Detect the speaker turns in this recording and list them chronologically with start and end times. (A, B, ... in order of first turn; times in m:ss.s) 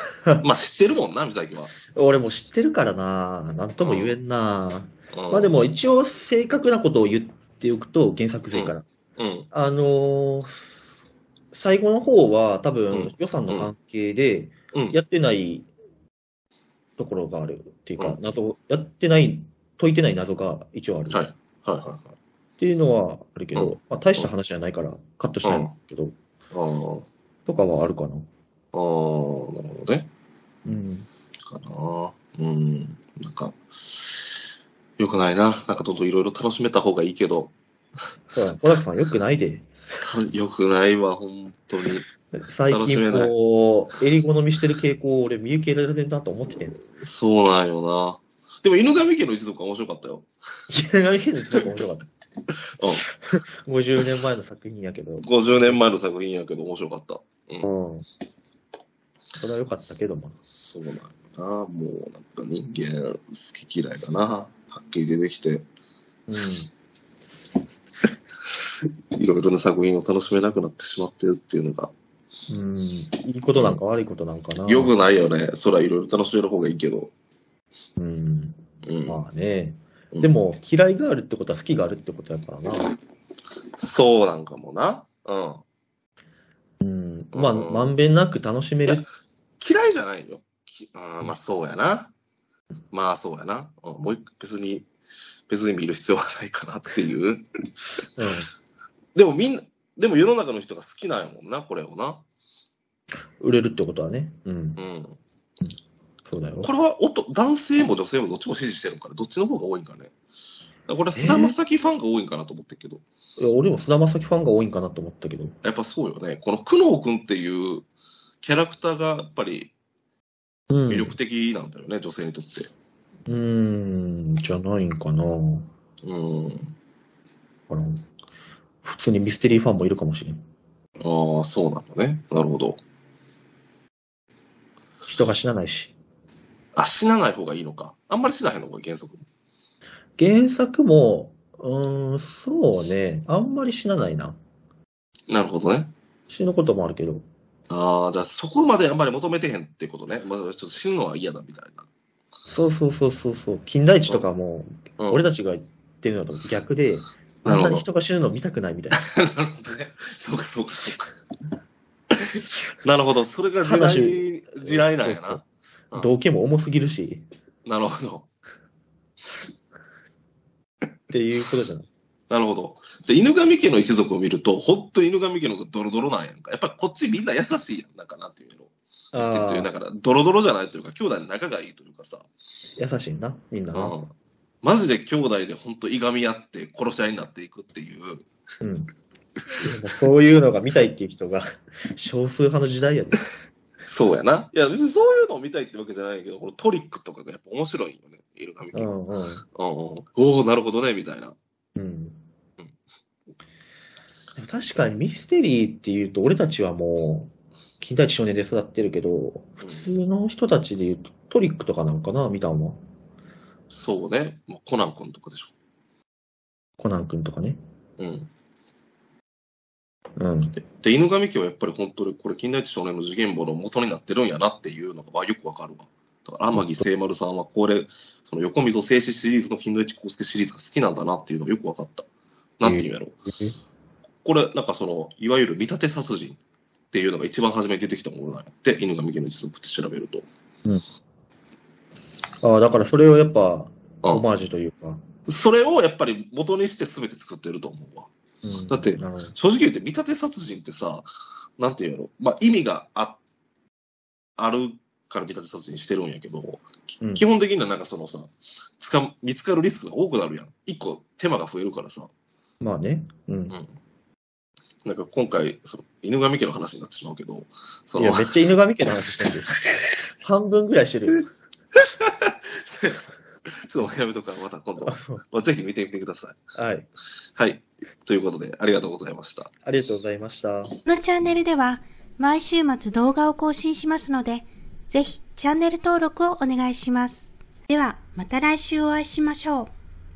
0:00.4-0:01.7 A
0:01.9-0:08.8 B
0:03.8-0:04.2 A
0:05.1-0:05.6 A
0:08.5-0:09.5 A
0:09.5-0:10.7 B
0:11.5-0:15.7 B
0:12.9-0:13.7 A
0:17.0-0:21.2 B
0:21.1-0:22.1 A
0:22.6-0:26.2 B
0:23.6-0:24.3 A
0:25.4-0:25.7 A
0:26.5-0:27.1 A
0:27.5-0:28.3 B
0:28.7-0:30.1 A
0:30.6-0:31.1 B
0:31.5-0:34.3 A
0:35.0-0:37.5 A
0:38.3-0:39.7 B
0:40.0-0:42.1 A
0:42.3-0:46.8 B
0:42.7-0:43.3 A
0:47.0-0:50.3 A
0:50.7-0:52.1 B
0:52.8-0:53.1 A
0:53.2-0:55.8 B
0:55.2-0:57.7 A
0:57.6-0:58.1 B
0:59.4-1:00.4 B
1:00.4-1:05.6 A
1:06.3-1:06.7 B
1:09.1-1:11.9 A
1:12.5-1:14.9 B
1:13.5-1:13.8 A
1:14.7-1:17.1 A
1:18.0-1:23.0 B
1:18.8-1:19.2 A
1:23.8-1:25.6 A
1:26.8-1:29.0 B
1:27.3-1:28.0 A
1:29.6-1:32.1 A
1:32.9-1:34.9 A
1:35.5-1:37.5 A
1:38.2-1:38.5 B
1:39.2-1:42.2 A
1:43.4-1:44.8 B
1:44.8-1:45.2 A
1:46.3-1:46.7 B
1:46.6-1:50.1 A
1:50.9-1:53.0 A
1:51.2-1:51.6 B
1:53.4-1:55.6 B
1:55.6-1:57.9 A
1:58.4-1:59.7 A
2:00.7-2:01.2 B
2:00.9-2:02.7 A
2:03.3-2:05.7 B
2:06.0-2:06.7 A
2:07.7-2:08.1 B
2:08.8-2:10.4 B
2:11.0-2:12.8 A
2:15.1-2:15.9 B
2:16.8-2:19.3 A
2:20.2-2:24.4 B
2:25.3-2:25.9 A
2:26.3-2:27.2 B
2:27.7-2:31.9 A
2:32.5-2:39.1 B
2:35.0-2:35.3 A
2:37.4-2:37.9 A
2:39.0-2:41.1 A
2:42.8-2:46.1 A
2:43.6-2:45.4 B
2:45.9-2:47.2 B
2:47.7-2:48.3 A
2:51.1-2:51.9 B
2:52.3-3:02.3 A
2:59.1-2:59.7 B
3:02.8-3:04.0 B
3:03.8-3:04.1 A
3:04.6-3:08.3 A
3:08.6-3:08.9 B
3:09.6-3:13.3 B
3:13.8-3:18.9 A
3:18.7-3:19.4 B
3:19.6-3:21.4 A
3:21.8-3:22.2 B
3:24.4-3:32.8 B
3:29.6-3:29.9 A
3:33.7-3:35.5 A
3:36.8-3:37.6 B
3:38.0-3:38.3 A
3:40.2-3:40.6 B
3:40.6-3:52.1 A
3:46.5-3:46.9 B
3:52.6-3:53.2 A
3:52.6-3:53.6 B
3:54.2-3:56.4 A
3:56.9-4:00.2 A
4:02.4-4:05.0 B
4:05.3-4:08.1 A
4:08.4-4:09.4 B
4:08.7-4:11.1 A
4:11.6-4:13.2 A
4:14.4-4:22.1 A
4:17.0-4:17.3 B
4:22.6-4:23.6 B
4:24.8-4:28.3 A
4:28.0-4:29.6 B
4:30.2-4:31.3 B
4:32.0-4:33.1 A
4:33.6-4:36.4 A
4:34.8-4:35.2 B
4:36.6-4:36.9 B
4:37.4-4:39.5 A
4:39.6-4:40.7 B
4:40.8-4:49.7 C